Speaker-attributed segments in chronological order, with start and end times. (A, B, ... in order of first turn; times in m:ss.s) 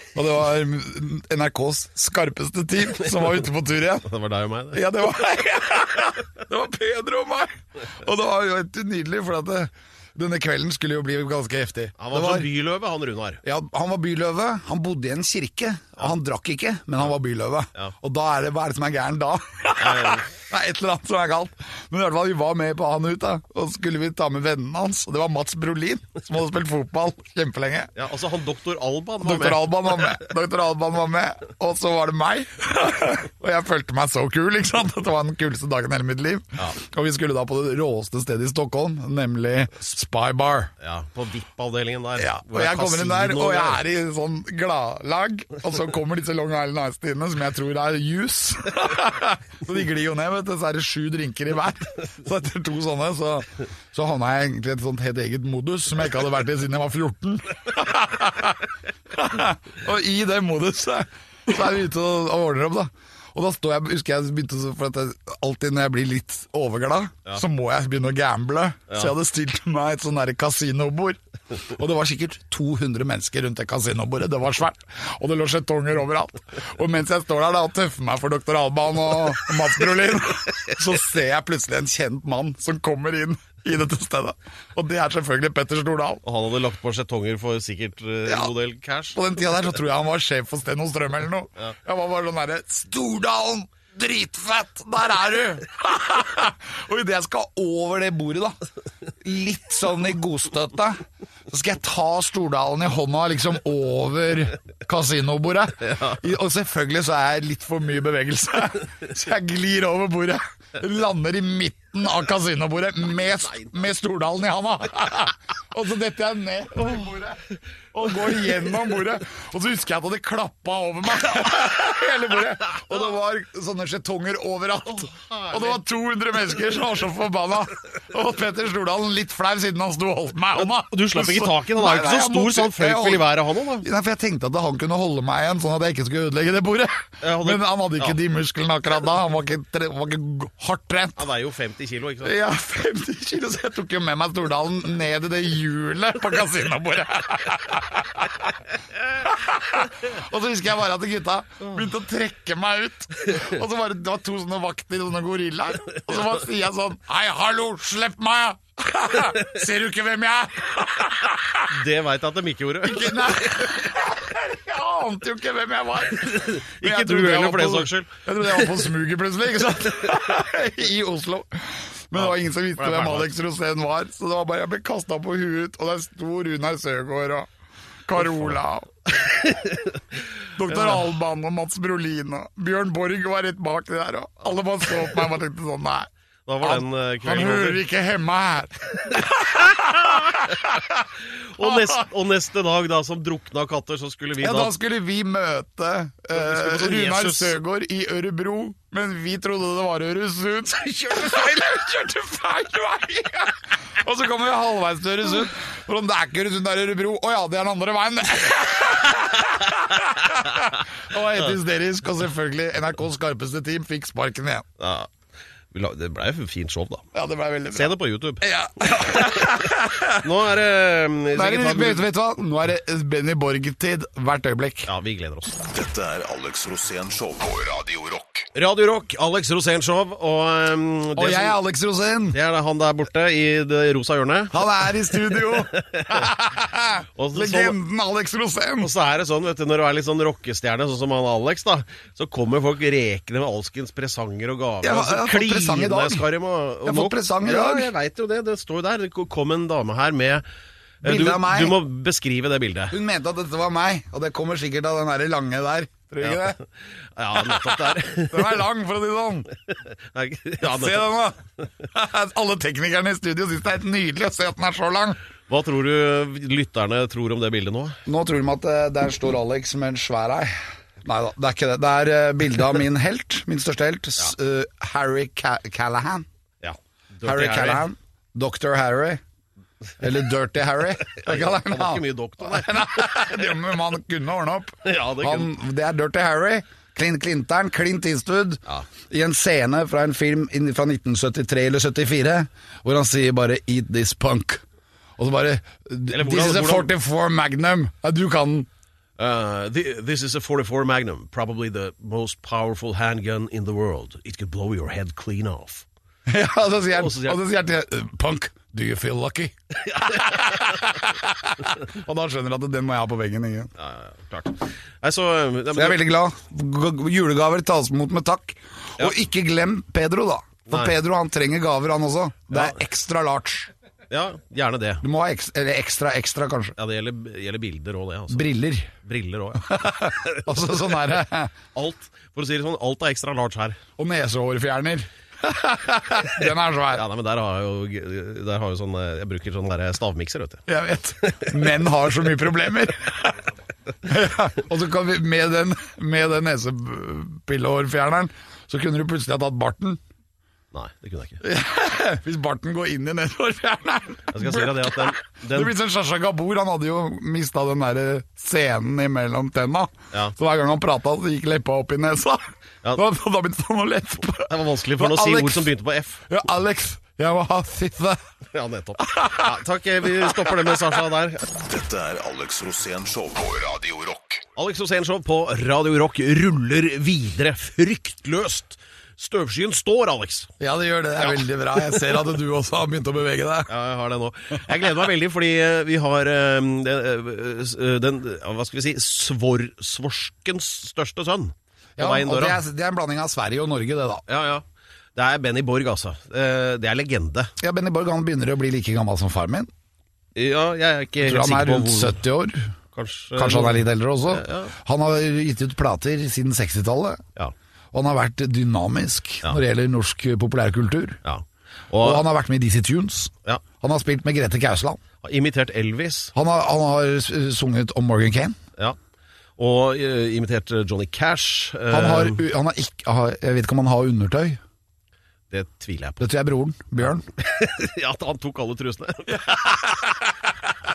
0:00.1-0:04.1 A
0:04.0-0:04.8 B
0:04.7-0:12.5 A
0:12.0-0:13.4 B
0:13.4-0:27.9 A
0:19.8-0:20.3 B
0:27.9-0:30.1 B
0:29.2-0:40.7 A
0:40.8-0:43.8 B
0:42.2-1:26.2 A
1:26.2-1:29.2 B
1:28.2-1:28.5 A
1:29.1-1:38.6 A
1:39.2-2:21.2 A
2:05.0-2:05.7 B
2:10.5-2:13.9 B
2:17.2-2:18.2 B
2:21.2-2:22.3 B
2:22.2-2:28.5 A
2:29.2-2:41.7 A
2:41.7-2:43.5 B
2:42.8-2:57.5 A
2:46.2-2:48.1 B
2:52.2-2:53.3 B
2:58.0-2:59.5 A
3:00.6-3:06.1 A
3:06.4-3:07.8 B
3:06.6-3:11.0 A
3:09.8-3:10.4 B
3:11.5-3:14.7 B
3:11.6-3:12.0 A
3:14.4-3:34.6 A
3:16.3-3:17.6 B
3:34.8-3:35.1 B
3:35.7-3:37.1 B
3:37.1-3:40.2 A
3:37.7-3:38.5 B
3:40.2-3:42.0 B
3:41.3-3:44.9 A
3:44.8-3:45.5 B
3:45.6-3:48.5 C
3:48.5-3:51.6 B
3:51.2-3:52.4 A
3:52.3-3:54.6 B
3:54.5-3:58.9 A
3:55.5-3:56.3 B
3:57.2-3:57.8 B
3:58.8-4:10.4 B
4:04.8-4:06.3 A
4:06.8-4:07.9 A
4:11.0-4:11.8 A
4:11.0-4:13.0 B
4:12.9-4:16.6 A
4:16.2-4:16.6 B
4:17.2-4:18.5 B
4:17.5-4:19.5 A
4:19.9-4:21.1 B
4:20.6-4:25.2 A
4:25.5-4:28.0 B
4:28.0-4:36.2 A
4:36.6-4:37.9 B
4:37.2-4:39.2 A
4:40.0-4:54.6 A
4:41.1-4:43.3 B
4:44.8-4:45.5 B
4:55.2-4:58.7 A
4:56.1-4:56.9 B
4:59.2-5:05.8 B
5:06.2-5:13.7 A
5:06.9-5:07.4 B
5:09.9-5:10.8 B
5:13.8-5:16.0 B
5:15.7-5:23.7 A
5:20.7-5:20.9 B
5:22.5-5:22.8 B
5:24.1-5:25.0 B
5:25.0-5:26.8 A
5:26.8-5:30.7 B
5:28.3-5:28.9 A
5:29.6-5:31.5 A
5:31.7-5:33.8 B
5:34.0-5:37.0 A
5:36.9-5:40.6 B
5:40.7-5:43.4 A
5:41.2-5:41.6 B
5:44.0-5:50.0 A
5:50.7-5:51.4 B
5:51.4-6:05.7 A
5:54.3-5:55.7 B
6:04.5-6:06.3 B
6:06.3-6:08.2 A
6:08.5-6:11.4 B
6:09.0-6:10.7 A
6:11.5-6:14.4 C
6:14.6-6:20.5 B
6:20.6-6:23.7 A
6:23.7-6:32.6 B
6:32.0-6:34.2 A
6:34.3-6:34.6 B
6:35.2-6:37.5 B
6:37.6-6:39.7 A
6:40.4-6:42.2 B
6:41.2-6:42.7 A
6:42.9-6:44.7 B
6:43.4-6:47.2 A
6:47.9-6:51.2 A
6:51.2-6:52.2 B
6:52.0-6:55.0 A
6:55.2-6:56.3 B
6:56.3-6:58.6 A
6:59.6-7:02.4 B
7:01.9-7:04.6 A
7:05.5-7:06.2 B
7:06.2-7:07.2 A
7:07.3-7:10.0 B
7:09.3-7:10.1 A